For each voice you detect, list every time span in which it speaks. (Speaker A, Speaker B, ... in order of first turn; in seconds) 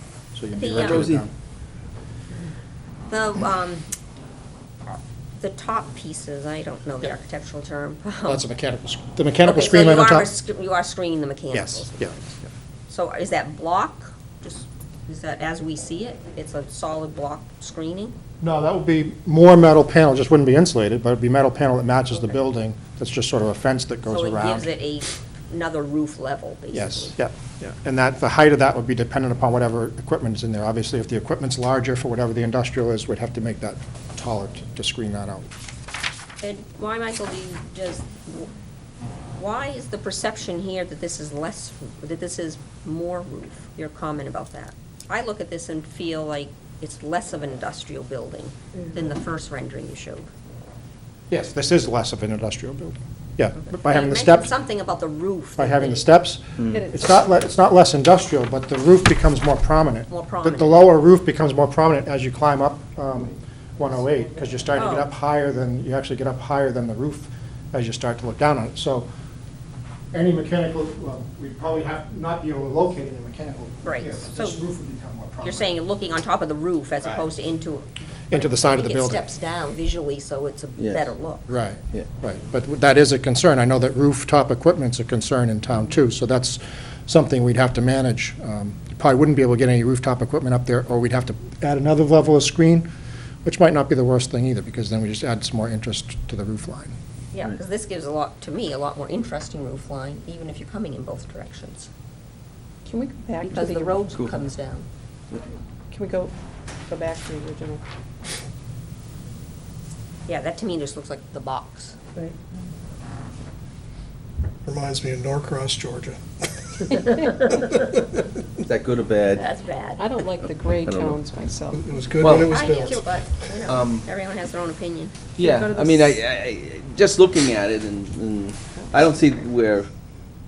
Speaker A: 0.3-1.3, 8.2-10.3, 11.5-12.1, 18.4-24.7, 26.7-35.5, 51.3-54.5, 55.6-69.1, 70.1-75.7, 78.3-79.2, 81.5-92.9, 93.4-97.0
Speaker B: 0.5-1.1, 3.1-3.9, 4.9-8.4, 9.4-18.1, 24.1-27.1, 36.4-38.5, 39.4-50.3, 53.7-56.1, 60.1-60.8, 64.7-65.1, 73.8-74.6, 75.4-81.5, 97.3-101.9, 103.4-104.9, 110.3-112.0, 119.3-120.0, 122.3-125.1
Speaker C: 0.8-1.2, 80.8-81.0, 118.6-119.4, 120.8-121.2, 122.2-122.5, 123.7-124.0, 125.4-129.9
Speaker D: 56.7-57.3, 102.8-104.0, 105.9-106.3, 106.9-107.8, 120.0-122.0, 125.4-126.2
Speaker E: 114.6-118.2, 121.7-123.1